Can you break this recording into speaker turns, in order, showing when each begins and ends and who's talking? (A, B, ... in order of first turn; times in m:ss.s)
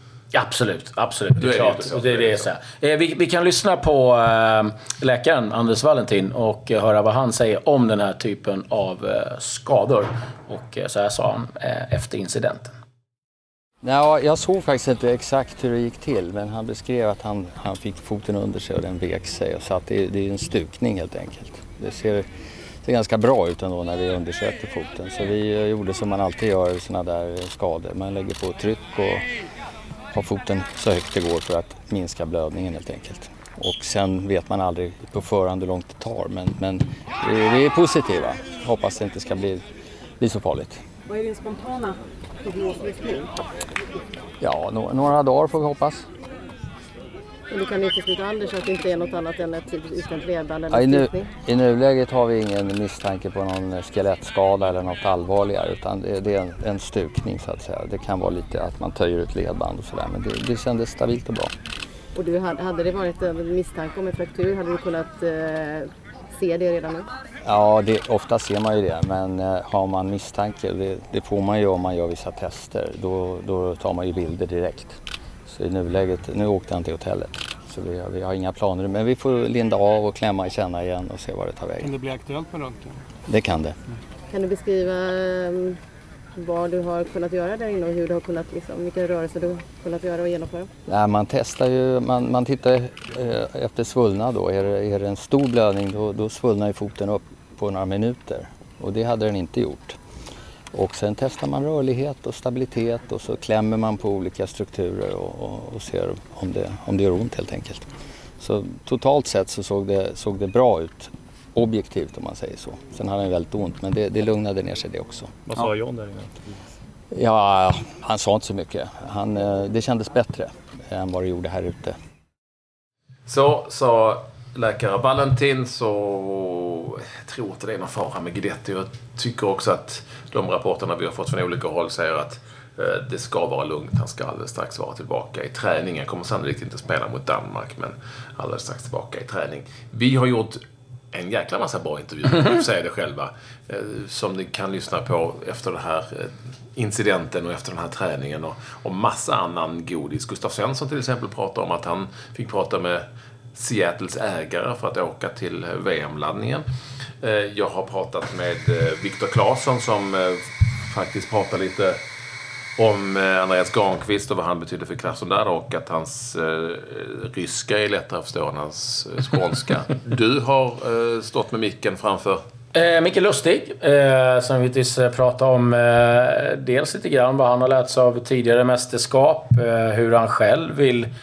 0:00.3-0:12.7 A
0:01.4-0:02.4 B
0:13.8-0:22.2 C
0:22.8-0:29.2 C
0:30.1-0:39.6 C
0:40.2-0:40.8 C
0:42.7-0:43.2 D
0:44.4-0:46.1 C
0:47.5-0:51.3 D
0:50.7-1:01.5 C
1:02.1-1:07.1 D
1:07.4-1:22.0 C
1:21.8-1:23.0 E
1:23.3-1:23.8 C
1:24.3-1:25.8 D
1:26.4-1:30.7 D
1:30.9-1:40.0 C
1:40.7-1:47.9 C
1:48.4-1:55.6 C
1:55.5-1:56.3 E
1:57.1-2:02.0 C
2:03.3-2:20.6 B
2:21.1-2:36.7 B
2:37.2-2:42.0 B
2:42.8-2:52.4 B
2:52.7-3:01.1 A